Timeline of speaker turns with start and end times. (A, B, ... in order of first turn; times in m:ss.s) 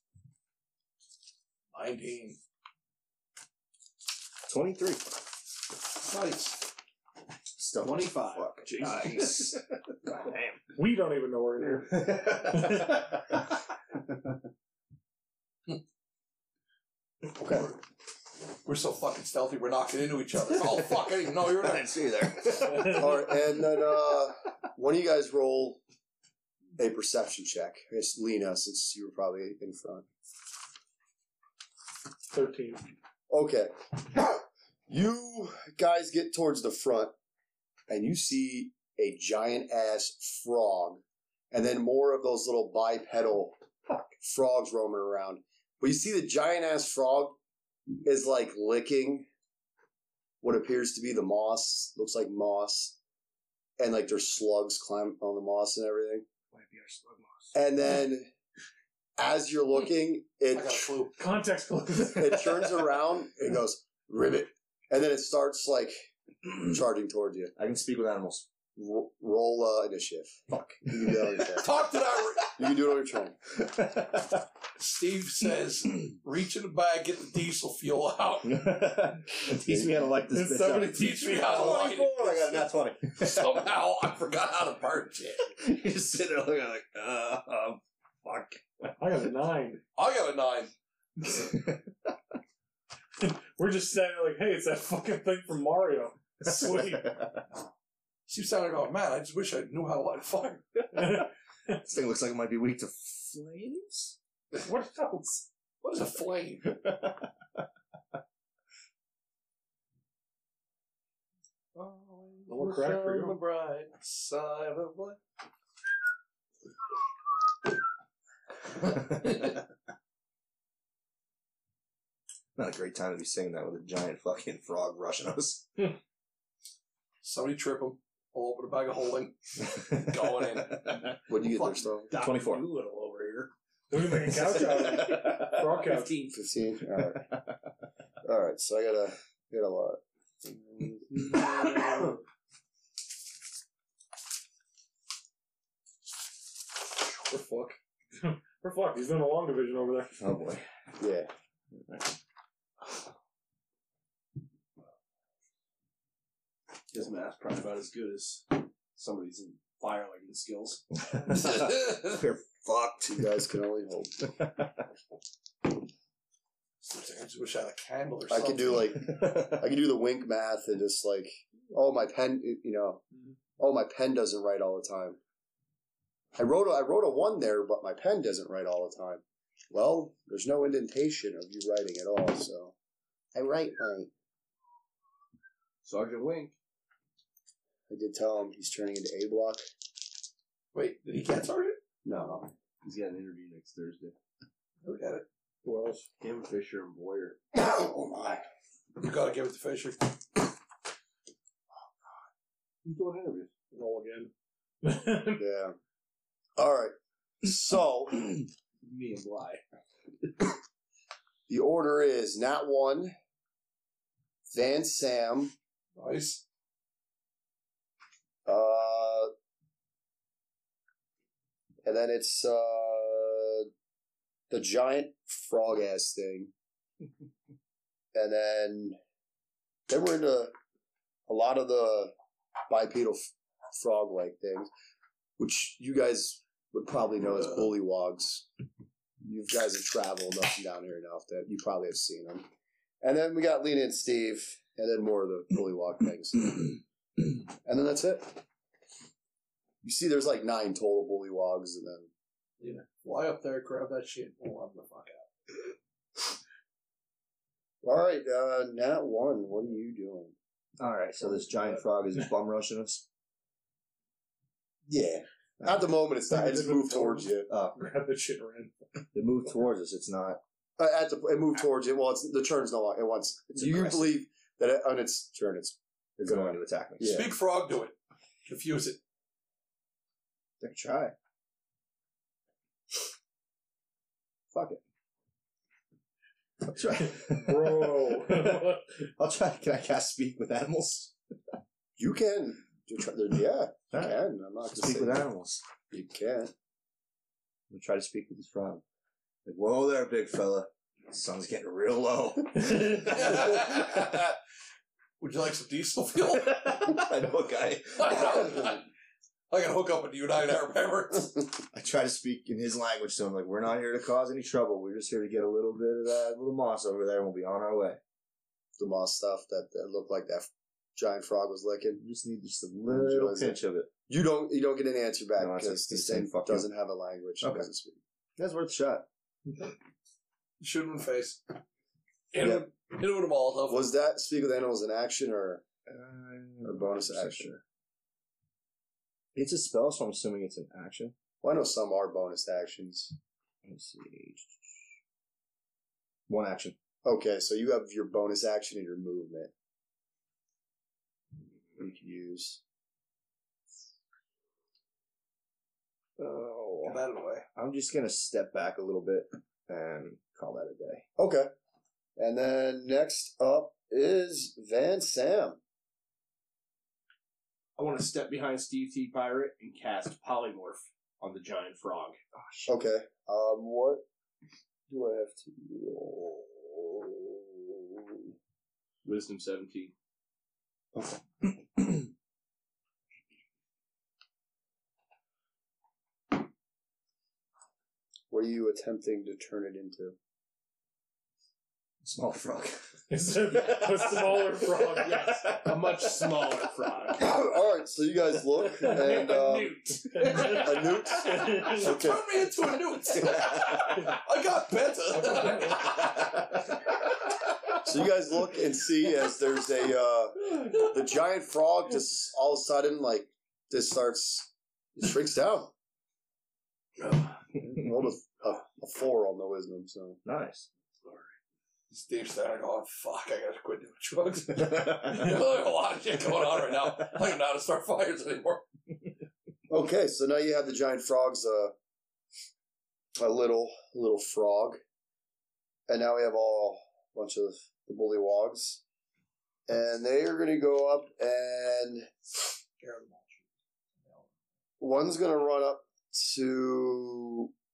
0:01.7-0:02.4 A
0:04.5-0:05.1 B
0:06.0-0:06.7 A
0:07.6-0:10.6 B
0:07.8-0:09.5 C
0:10.7-0:13.0 D
0:11.9-0:13.4 B
0:17.4-0:17.7 E
0:18.6-0:21.9 A
0:21.5-0:23.3 B
0:22.7-0:25.8 E
0:26.8-0:30.1 E
0:32.3-0:32.9 D
0:33.3-0:37.1 E
0:37.9-0:47.4 E
0:48.0-0:49.2 E
0:50.4-0:53.0 E
0:53.8-0:56.2 E
0:56.5-0:57.4 B
0:57.5-0:58.3 E
0:59.2-1:00.9 E
1:00.5-1:01.1 A
1:01.2-1:02.7 D
1:02.0-1:06.1 E
1:06.6-1:07.5 E
1:07.6-1:08.5 B
1:08.8-1:11.7 E
1:10.5-1:11.6 B
1:11.5-1:12.6 A
1:12.6-1:13.4 E
1:13.6-1:14.4 B
1:14.8-1:18.7 A
1:18.4-1:23.6 B
1:19.6-1:19.9 E
1:20.3-1:21.9 D
1:20.9-1:22.6 A
1:23.2-1:25.5 A
1:25.5-1:29.0 B
1:29.0-1:29.8 D
1:29.9-1:30.7 A
1:31.4-1:31.8 B
1:33.2-1:37.2 D
1:36.4-1:37.4 B
1:38.3-1:40.6 A
1:40.9-1:41.8 D
1:41.8-1:44.2 B
1:44.6-1:45.5 D
1:45.8-1:46.8 A
1:46.8-1:47.1 B
1:51.7-1:55.2 C
1:52.5-1:53.4 D
1:54.0-1:54.9 A
2:02.6-2:06.0 B
2:07.2-2:11.8 A
2:09.7-2:11.0 B
2:11.3-2:12.1 E
2:12.1-2:13.5 C
2:12.1-2:12.7 B
2:13.9-2:16.1 D
2:14.4-2:16.4 C
2:14.5-2:15.5 B
2:16.3-2:17.3 E
2:18.2-2:22.2 E
2:27.3-2:30.2 D
2:30.2-2:30.7 B
2:31.0-2:31.3 E
2:36.9-2:40.8 C
2:41.1-2:43.3 B
2:43.1-2:44.3 E
2:46.8-2:48.9 A
2:48.3-2:53.0 E
2:53.6-2:55.2 E
2:56.4-3:02.7 E
3:03.4-3:04.1 E
3:05.8-3:06.6 C
3:07.9-3:09.6 E
3:10.7-3:11.8 A
3:12.0-3:12.5 E
3:12.8-3:14.1 C
3:14.8-3:15.2 A
3:15.6-3:16.1 D
3:16.2-3:17.4 C
3:17.5-3:18.4 E
3:19.0-3:20.2 A
3:22.8-3:23.5 C
3:23.7-3:24.3 D
3:24.8-3:25.4 D
3:25.4-3:25.8 E
3:26.6-3:28.4 E
3:28.8-3:29.6 C
3:31.5-3:33.1 E
3:34.5-3:35.5 E
3:36.0-3:36.4 A
3:38.4-3:39.3 E
3:41.8-3:43.7 E
3:44.5-3:46.5 E
3:48.1-3:49.0 E
3:49.9-3:50.5 E
3:51.3-3:52.1 E
3:52.7-3:54.7 E
3:55.4-3:58.5 E
3:59.2-4:02.5 E
4:03.0-4:06.8 E
4:07.6-4:08.4 E
4:09.8-4:12.1 E
4:12.6-4:15.3 A
4:17.8-4:20.4 E
4:20.8-4:23.0 B
4:24.9-4:27.5 E
4:26.3-4:28.7 D
4:27.5-4:27.8 B
4:29.1-4:30.4 B
4:30.8-4:37.3 E
4:33.6-4:34.1 B
4:36.2-4:37.2 B
4:37.0-4:39.0 A
4:40.6-4:41.1 B
4:44.5-4:44.8 B
4:46.6-4:51.1 B
4:47.1-4:48.8 D
4:52.0-4:55.2 E
4:53.9-4:54.2 B
4:54.7-4:55.6 B
4:55.9-4:56.5 E
4:57.7-4:58.8 B
4:59.4-5:04.1 B
5:02.9-5:04.4 A
5:05.2-5:07.0 A
5:06.3-5:08.6 B
5:08.0-5:08.9 A
5:09.5-5:11.4 A
5:11.7-5:18.0 B
5:18.8-5:22.0 E
5:22.0-5:23.9 B
5:22.9-5:28.0 E
5:25.4-5:26.7 B
5:27.4-5:27.7 B
5:28.4-5:29.1 B
5:30.6-5:31.4 A
5:32.3-5:33.9 A
5:32.4-5:32.6 E
5:33.7-5:35.6 E
5:35.9-5:37.6 B
5:36.6-5:37.6 E
5:39.4-5:41.1 B
5:41.4-5:43.1 E
5:43.6-5:44.6 B
5:46.3-5:46.8 B
5:47.0-5:49.5 E
5:51.8-5:52.6 E
5:56.2-5:57.0 B
5:56.8-5:57.4 A
5:57.6-6:01.1 B
6:01.2-6:01.5 E
6:02.2-6:05.6 E
6:07.8-6:12.2 C
6:12.4-6:12.7 B
6:12.7-6:14.0 E
6:14.9-6:18.3 E
6:19.0-6:19.9 C
6:20.9-6:21.4 E
6:28.3-6:30.2 E
6:32.0-6:32.9 B
6:33.1-6:35.7 D
6:33.7-6:34.2 B
6:35.1-6:37.3 C
6:37.2-6:42.2 E
6:38.8-6:41.9 D
6:41.3-6:46.5 A
6:45.1-6:46.0 D
6:47.8-6:55.7 E
6:57.6-7:00.2 E
7:00.2-7:00.7 B
7:01.9-7:08.6 A
7:04.6-7:05.3 B
7:09.7-7:11.7 E
7:13.2-7:14.8 E
7:15.9-7:18.8 E
7:19.7-7:22.1 E
7:22.8-7:23.4 A
7:24.8-7:27.5 E